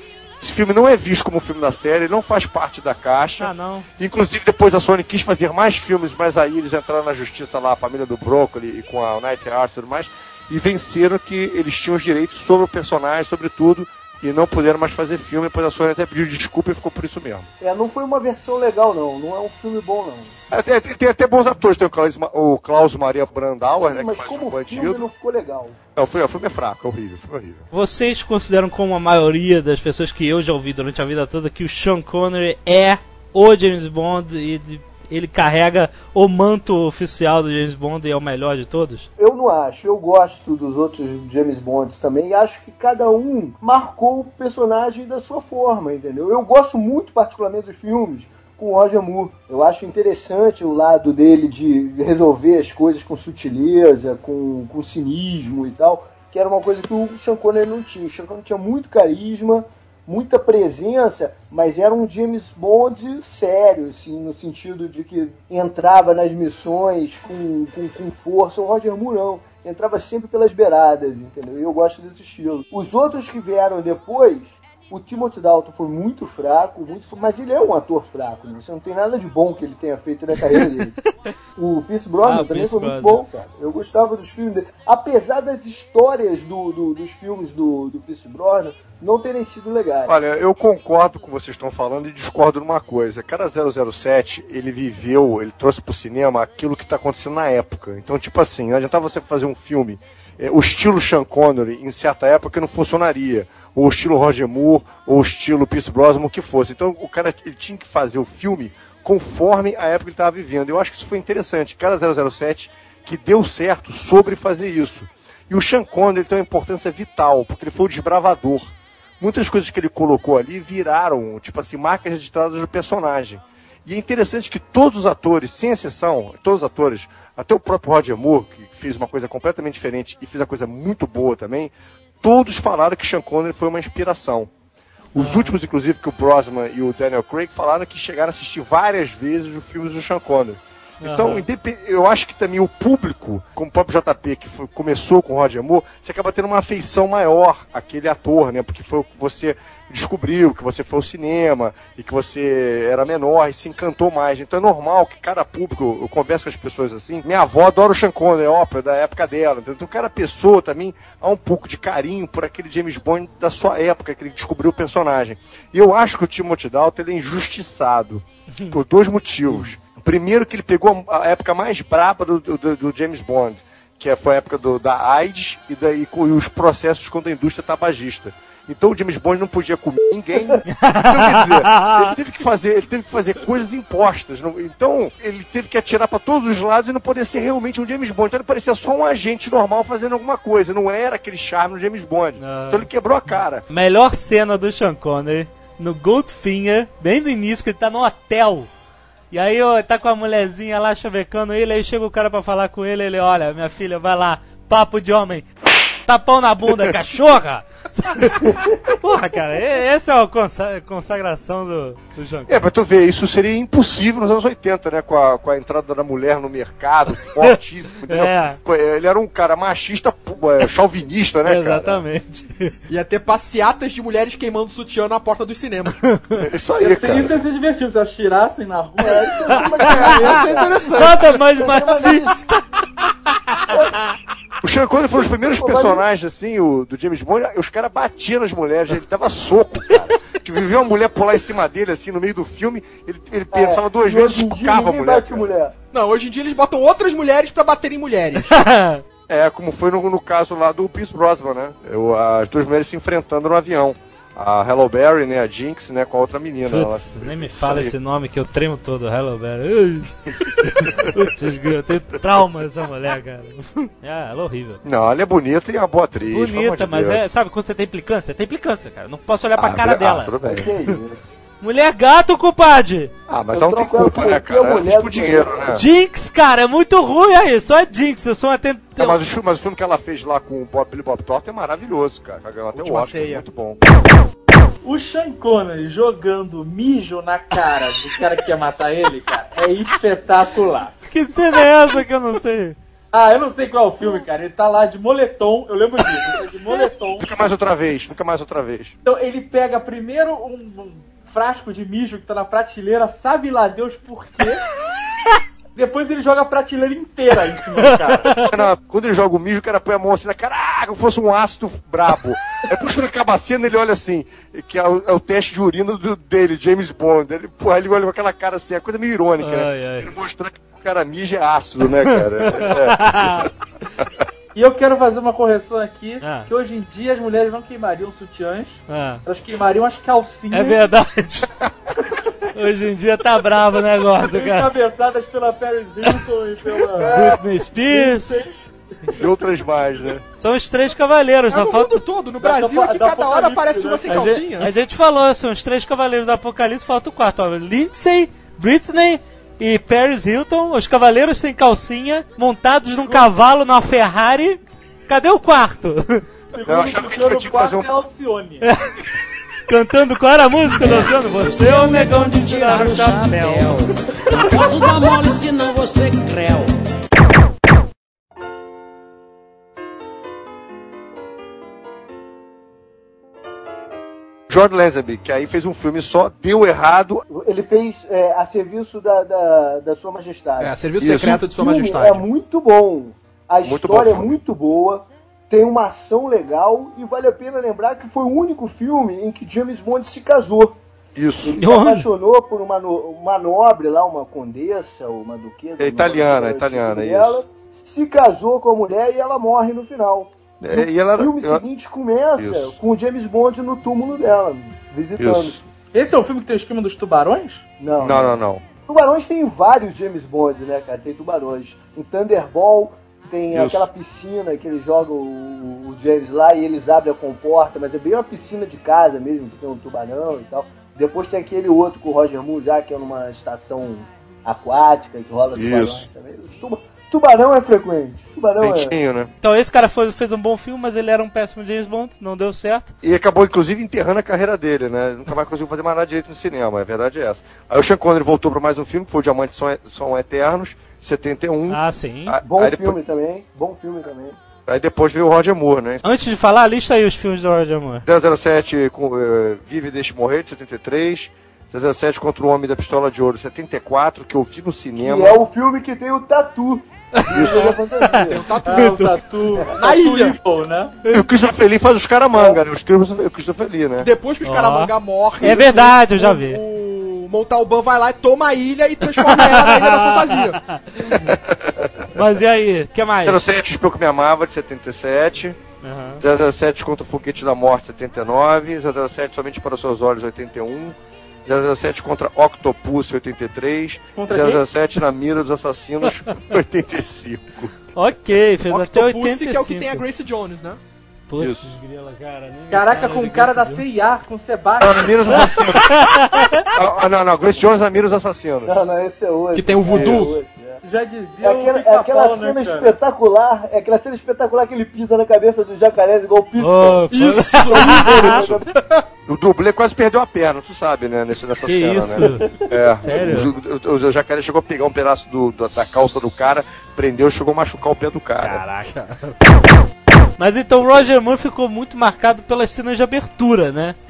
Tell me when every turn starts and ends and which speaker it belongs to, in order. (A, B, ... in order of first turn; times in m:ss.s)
0:00.4-0:17.5 A
0:03.4-0:03.9 B
0:17.6-0:20.3 C
0:20.5-0:25.0 A
0:23.8-0:25.8 C
0:26.0-0:27.7 A
0:27.7-0:39.1 B
0:39.2-1:21.0 C
1:21.6-1:30.2 C
1:22.2-1:23.2 B
1:30.1-2:14.5 A
2:15.1-3:13.6 A
2:15.2-2:15.6 B
2:21.0-2:21.4 B
3:00.8-3:02.1 B
3:12.4-3:12.9 B
3:13.7-3:18.7 B
3:19.3-3:25.5 B
3:26.1-3:32.6 B
3:32.5-3:42.0 A
3:38.1-3:38.6 B
3:41.4-3:42.8 B
3:42.9-3:46.1 D
3:46.0-3:46.4 B
3:46.4-3:47.4 A
3:46.8-3:49.7 E
3:49.0-3:52.4 C
3:49.8-3:50.3 B
3:49.8-3:51.3 D
3:50.9-3:52.6 B
3:53.7-3:53.9 C
3:54.6-4:05.4 A
3:55.5-3:56.0 C
4:03.5-4:05.8 C
4:05.9-4:08.6 D
4:08.5-4:09.0 B
4:09.3-4:17.9 A
4:16.7-4:24.8 B
4:20.5-4:21.2 A
4:24.8-4:27.2 A
4:26.3-4:30.3 B
4:29.6-4:30.7 A
4:30.4-4:31.3 C
4:31.6-4:33.1 B
4:33.3-4:35.8 A
4:33.5-4:35.7 C
4:35.7-4:39.2 B
4:39.0-4:43.8 A
4:42.7-4:43.5 D
4:44.8-4:51.0 E
4:51.1-4:52.8 B
4:53.1-4:57.4 E
4:57.2-4:59.0 A
4:59.0-5:04.6 E
5:05.8-5:08.3 E
5:07.8-5:08.5 B
5:08.4-5:24.2 A
5:19.4-5:20.1 B
5:22.4-5:23.5 B
5:24.5-5:30.9 E
5:26.2-5:26.5 B
5:28.9-5:29.2 B
5:30.5-5:31.5 B
5:32.5-5:34.7 B
5:34.2-5:37.2 E
5:37.0-5:38.4 B
5:37.0-5:37.4 A
5:37.9-5:38.6 E
5:39.2-5:40.2 A
5:40.4-5:42.0 B
5:41.5-5:44.7 D
5:42.4-5:44.3 E
5:44.1-5:56.2 B
5:53.0-5:53.3 E
5:56.5-5:58.7 E
5:56.7-5:57.9 A
5:59.7-6:05.0 B
6:00.8-6:06.7 F
6:14.5-6:17.3 A
6:17.3-6:30.8 C
6:20.6-6:22.3 D
6:21.0-6:21.4 A
6:23.6-6:24.4 A
6:31.2-6:31.6 A
6:31.4-6:45.6 C
6:31.6-6:32.1 B
6:35.8-6:37.4 A
6:40.6-6:41.6 A
6:42.4-6:42.7 A
6:45.2-6:45.6 A
6:45.9-6:47.6 E
6:47.8-7:09.0 C
6:48.0-6:48.6 A
6:53.5-6:53.8 A
7:05.5-7:06.0 A
7:08.6-7:09.3 A
7:09.4-7:12.9 B
7:13.0-7:23.0 A
7:21.7-7:22.4 B
7:22.4-7:24.4 C
7:24.7-7:26.0 A
7:26.0-7:28.0 B
7:28.0-7:35.4 A
7:35.0-7:38.6 C
7:37.2-7:39.2 B
7:37.3-7:37.8 A
7:38.2-7:39.1 D
7:38.6-7:41.0 E
7:39.7-7:40.4 D
7:41.1-7:44.1 A
7:42.3-7:42.6 C
7:44.0-7:50.6 D
7:44.4-7:46.6 B
7:49.2-7:51.3 B
7:51.2-7:52.2 A
7:52.1-7:53.4 B
7:53.2-7:55.6 A
7:55.8-7:56.2 B
7:56.2-8:07.7 A
8:04.2-8:04.6 E
8:08.0-8:10.0 B
8:08.7-8:10.8 D
8:11.3-8:13.8 B
8:11.4-8:11.7 A
8:12.7-8:15.7 E
8:14.8-8:18.7 A
8:15.8-8:16.7 B
8:18.7-8:20.8 C
8:19.5-8:20.4 D
8:19.9-8:20.3 A
8:20.8-8:23.0 E
8:21.4-8:27.1 C
8:26.6-8:28.3 B
8:27.1-8:29.1 D
8:27.6-8:28.7 C
8:28.3-8:28.6 A
8:29.3-8:38.6 A
8:31.6-8:32.5 B
8:33.0-8:33.5 B
8:38.4-8:38.9 B
8:38.9-8:39.4 D
8:40.4-8:44.0 B